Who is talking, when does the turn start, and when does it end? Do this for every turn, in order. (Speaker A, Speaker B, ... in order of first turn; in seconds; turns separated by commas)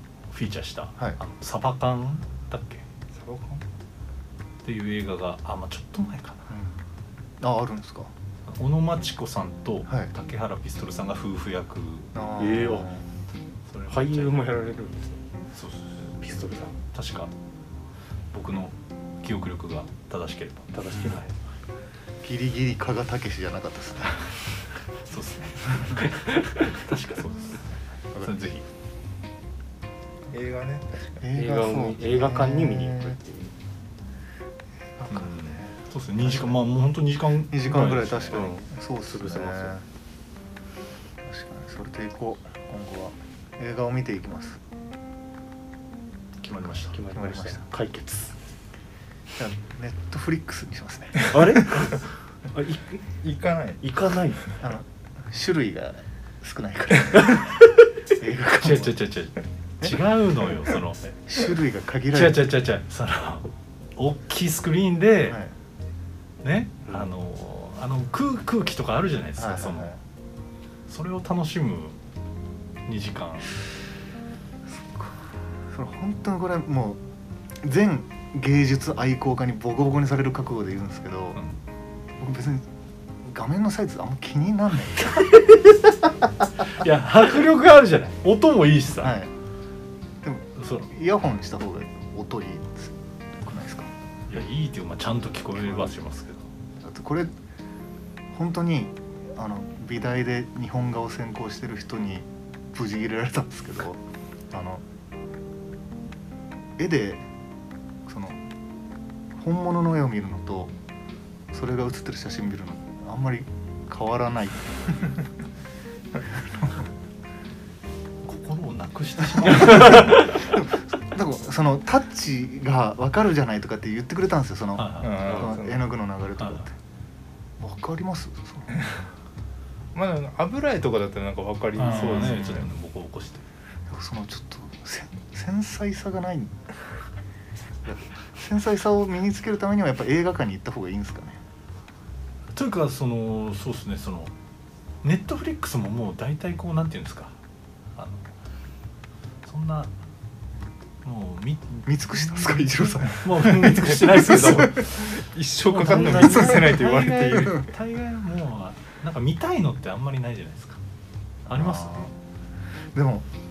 Speaker A: 0.3-2.8, Speaker B: 3.1-3.6, Speaker A: 4.6-6.5, Speaker C: 6.5-6.8, Speaker C: 7.4-8.1, Speaker A: 8.5-12.1, Speaker C: 12.1-13.0, Speaker D: 12.4-12.9, Speaker A: 13.7-14.4, Speaker D: 13.9-15.2, Speaker A: 15.5-16.2, Speaker D: 16.2-16.8, Speaker A: 16.8-17.3, Speaker A: 18.3-21.3, Speaker D: 20.7-21.3, Speaker C: 22.2-24.3, Speaker A: 25.0-28.6, Speaker D: 26.0-26.7, Speaker B: 30.3-31.2, Speaker C: 31.2-33.2, Speaker D: 31.3-33.5, Speaker C: 35.0-36.6, Speaker A: 35.1-38.5, Speaker C: 37.5-39.8, Speaker D: 38.3-39.7, Speaker C: 41.2-44.6, Speaker A: 46.4-46.9, Speaker D: 46.8-48.3, Speaker C: 47.1-47.6, Speaker C: 49.4-51.4, Speaker D: 51.3-52.0, Speaker D: 52.5-53.0, Speaker B: 53.2-53.8, Speaker D: 53.8-54.6, Speaker C: 54.6-57.5, Speaker C: 58.2-59.0, Speaker A: 58.6-61.1, Speaker C: 61.3-62.5, Speaker A: 62.1-65.4, Speaker C: 65.3-65.5, Speaker A: 66.4-69.9, Speaker C: 69.4-70.0, Speaker A: 70.9-72.0, Speaker A: 72.9-73.5, Speaker C: 74.7-77.0, Speaker C: 77.6-81.4, Speaker C: 82.2-82.7, Speaker C: 83.2-85.3, Speaker A: 86.7-89.2, Speaker C: 89.0-89.3, Speaker C: 90.2-93.9, Speaker A: 90.6-90.9, Speaker A: 94.3-96.5, Speaker C: 95.6-95.9, Speaker C: 96.8-97.3, Speaker C: 98.3-104.8, Speaker C: 106.8-107.2, Speaker C: 108.0-108.4, Speaker C: 109.3-110.7, Speaker C: 111.5-115.1, Speaker C: 116.3-116.9, Speaker A: 118.2-120.5, Speaker C: 119.4-126.7, Speaker A: 124.8-125.3, Speaker B: 125.0-125.8, Speaker D: 125.2-125.5, Speaker C: 127.6-128.8, Speaker B: 129.9-132.7, Speaker A: 131.8-133.4, Speaker C: 131.8-132.7, Speaker C: 133.9-136.5, Speaker C: 137.8-141.4, Speaker A: 142.5-144.3, Speaker A: 145.0-147.3, Speaker A: 147.9-148.3, Speaker A: 149.4-149.9, Speaker A: 151.0-155.2, Speaker C: 151.8-154.7, Speaker B: 153.4-157.6, Speaker A: 155.7-160.8, Speaker C: 161.5-162.1, Speaker A: 161.5-162.1, Speaker C: 162.9-163.3